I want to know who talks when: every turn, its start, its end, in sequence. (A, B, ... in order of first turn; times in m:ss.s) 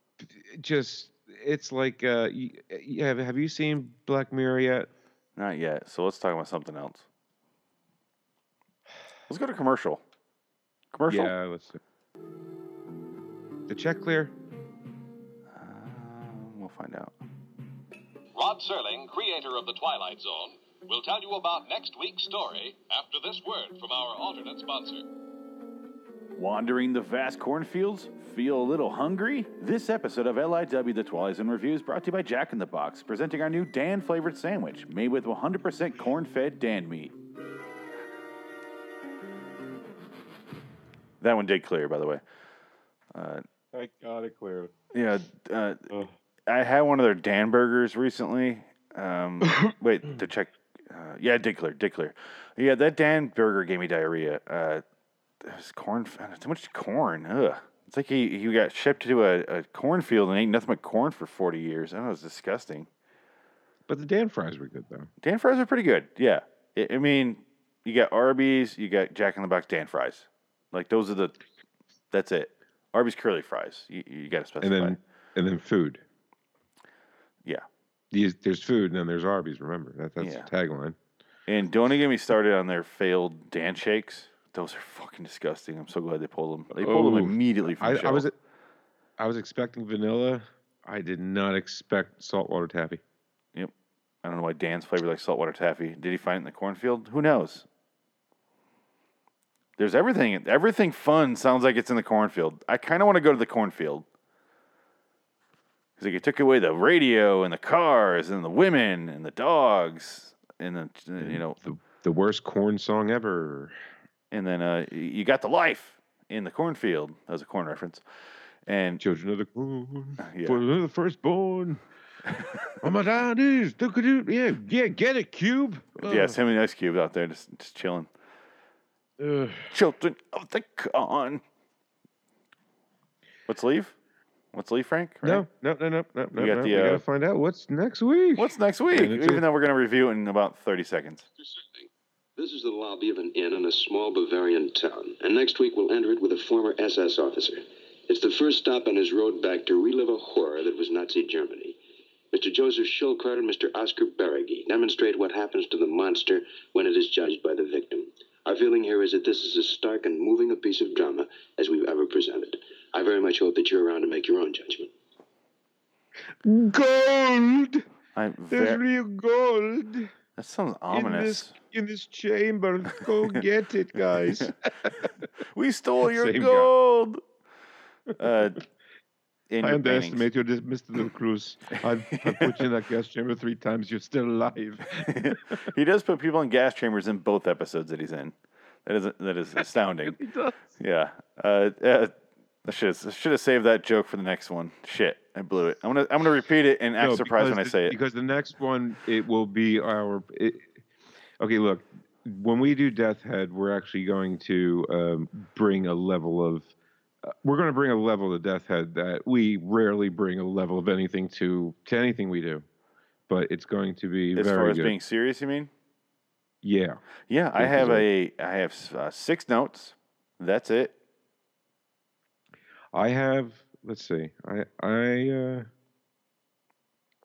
0:00.2-0:04.9 A
0:05.4-0:07.0 B
0:09.3-0:10.0 B
0:10.9-0:11.3 B
0:11.1-0:11.8 A
0:13.7-0:14.3 A
0:15.5-0:17.1 B
0:18.4-0:25.1 C
0:26.4-0:37.1 B
0:41.2-0:42.2 B
0:43.1-0:43.4 B
0:43.7-0:44.7 A
0:44.9-0:45.8 B
0:46.5-0:54.8 B
0:49.4-0:49.7 A
0:55.4-1:02.9 B
1:03.9-1:05.1 A
1:05.2-1:11.4 B
1:12.1-1:15.0 B
1:14.6-1:16.0 A
1:18.1-1:21.0 A
1:20.2-1:20.5 B
1:21.5-1:28.2 B
1:26.7-1:28.3 A
1:29.2-1:33.0 A
1:34.2-1:37.7 B
1:39.8-1:44.0 B
1:46.0-1:51.6 B
1:51.2-1:53.7 A
1:54.3-1:58.0 B
1:58.6-1:59.0 B
1:59.0-2:01.8 A
2:00.2-2:00.6 B
2:02.3-2:02.7 B
2:02.8-2:06.4 A
2:06.0-2:08.1 B
2:09.2-2:09.7 A
2:09.7-2:11.4 B
2:13.5-2:14.0 B
2:14.5-2:15.4 B
2:15.2-2:19.4 A
2:16.4-2:17.0 B
2:18.4-2:21.2 B
2:21.4-2:31.8 D
2:32.3-2:44.9 D
2:46.4-2:47.8 A
2:48.1-2:48.8 B
2:48.5-2:50.1 A
2:50.4-2:51.5 B
2:50.9-2:55.2 A
2:55.4-2:57.2 B
2:56.0-2:56.7 A
2:58.2-2:58.6 B
2:58.2-2:58.5 A
2:59.5-3:00.3 B
2:59.6-3:05.6 A
3:02.2-3:02.6 B
3:05.0-3:08.3 B
3:08.8-3:10.2 B
3:09.6-3:10.7 A
3:10.8-3:18.0 B
3:17.0-3:20.8 A
3:21.4-3:26.7 A
3:27.2-3:32.6 A
3:33.3-3:34.9 A
3:34.4-3:35.7 B
3:36.6-3:37.0 A
3:37.3-3:40.9 B
3:37.6-3:38.0 A
3:42.9-3:45.7 A